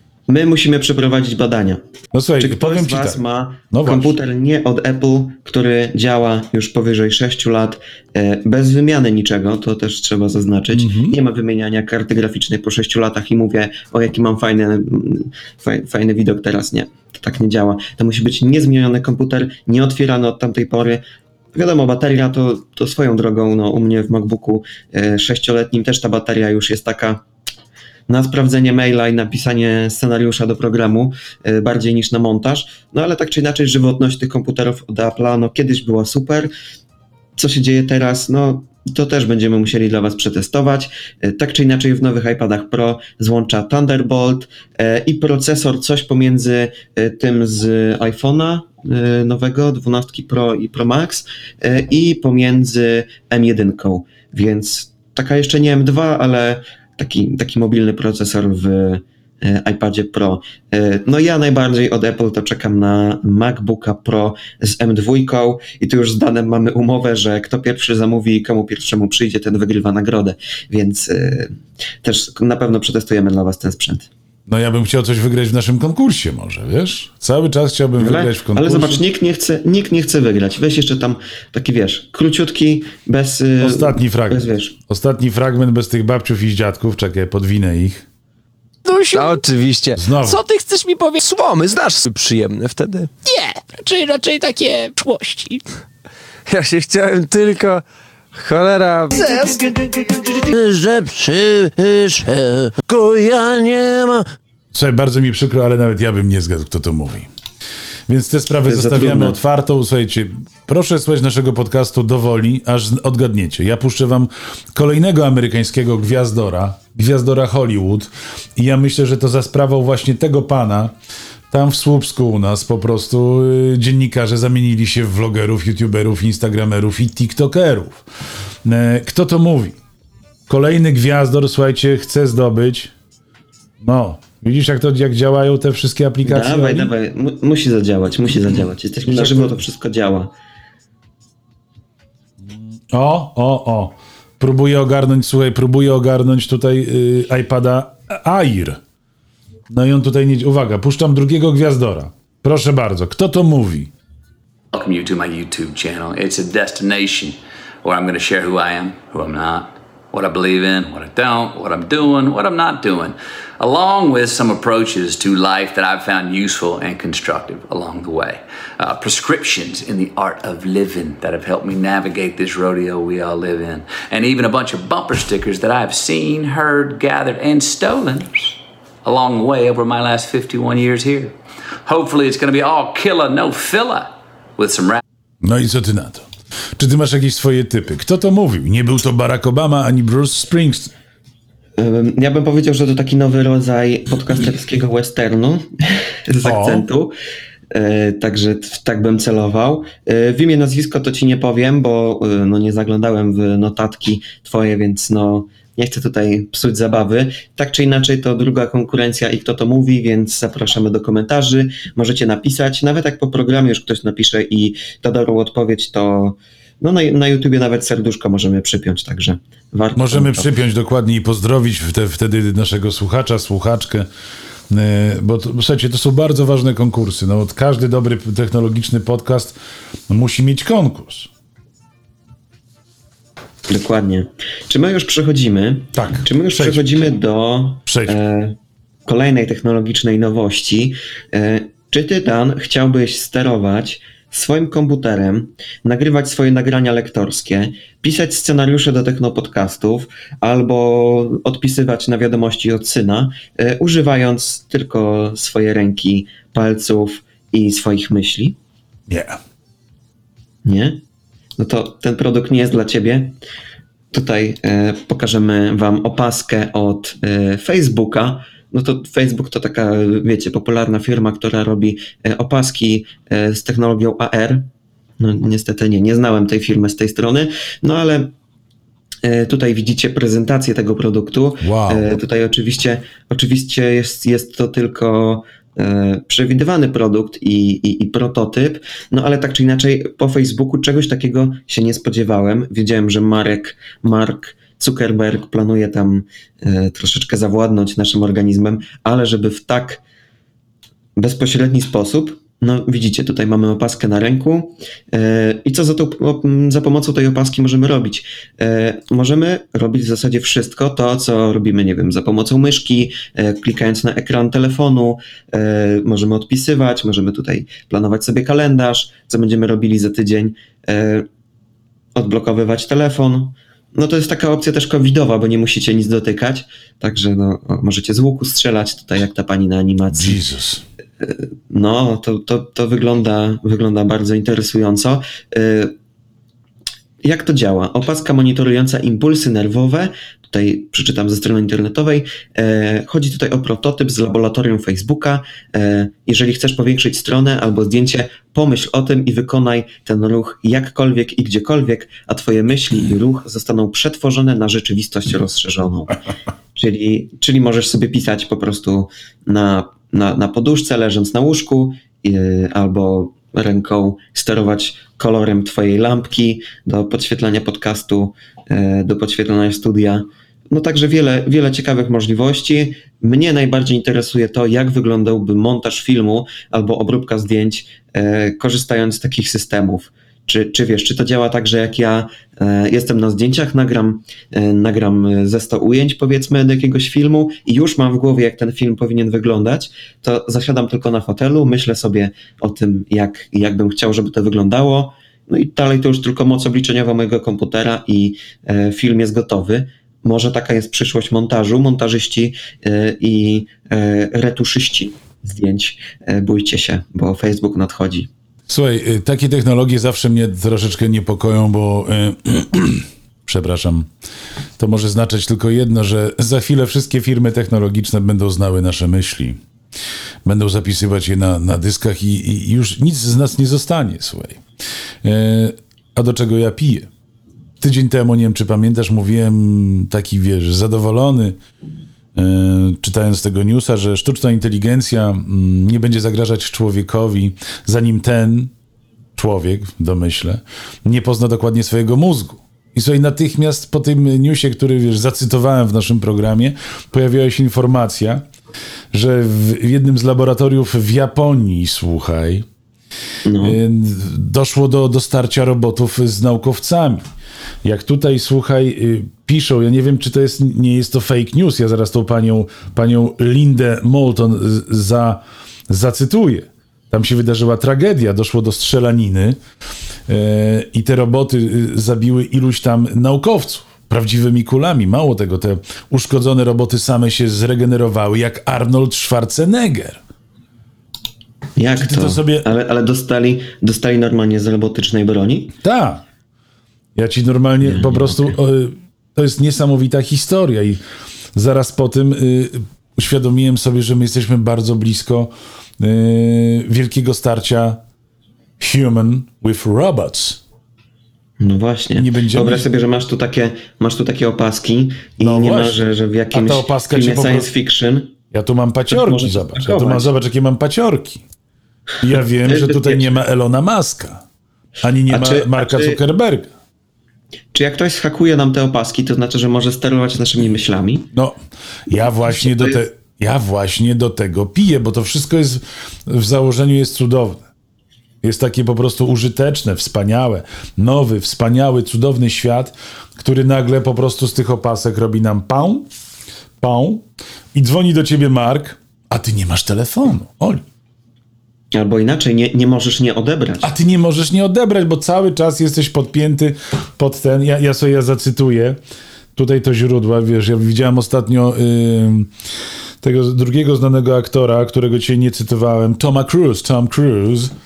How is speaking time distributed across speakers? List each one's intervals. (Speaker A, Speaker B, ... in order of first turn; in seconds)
Speaker A: 0.3-1.8, 2.4-21.0, 21.5-27.2, 28.1-36.5, 37.4-74.1, 78.0-84.7, 108.6-109.4, 136.2-140.3, 191.8-197.1, 197.7-220.5, 233.7-258.6, 260.6-261.0, 261.6-263.4, 264.1-274.7, 275.2-278.3, 279.2-300.0, 301.1-321.3, 322.1-330.4, 331.2-335.9, 337.2-356.2, 356.7-408.3, 453.4-453.8, 481.8-485.8, 487.8-488.6, 501.6-508.3, 509.1-510.3, 512.6-513.4, 515.3-516.2, 517.7-521.3, 522.4-523.0, 541.9-543.9
Speaker B: 2.1-4.2, 10.7-11.2, 74.5-79.0, 83.6-88.0, 90.0-90.4, 100.5-101.8, 104.7-107.3, 108.1-120.9, 121.5-128.0, 128.6-129.8, 130.5-132.9, 133.8-136.9, 139.1-139.6, 142.4-148.8, 149.7-153.9, 185.4-190.9, 196.4-196.8, 219.9-224.1, 224.7-229.5, 230.1-231.3, 235.9-237.0, 237.9-238.2, 259.1-259.4, 281.6-282.1, 330.1-330.8, 408.7-414.1, 414.8-419.6, 420.4-424.6, 425.2-427.1, 427.8-431.6, 432.3-438.7, 439.4-448.4, 449.1-452.6, 453.6-457.3, 457.8-469.6, 470.3-480.2, 482.0-482.7, 485.8-486.2, 487.1-491.0, 491.5-498.0, 498.8-500.6, 502.1-502.9, 505.4-507.7, 508.5-511.4, 512.2-514.4, 515.0-516.7, 521.3-527.6, 528.4-536.1, 536.8-540.8, 543.8-549.0, 549.5-552.5, 553.2-557.7
Speaker C: 88.8-89.4, 90.2-91.2, 93.2-95.6, 99.2-99.5
Speaker D: 89.1-90.0, 91.2-93.1, 96.5-99.8
Speaker E: 154.7-178.5, 179.0-181.3, 181.8-185.0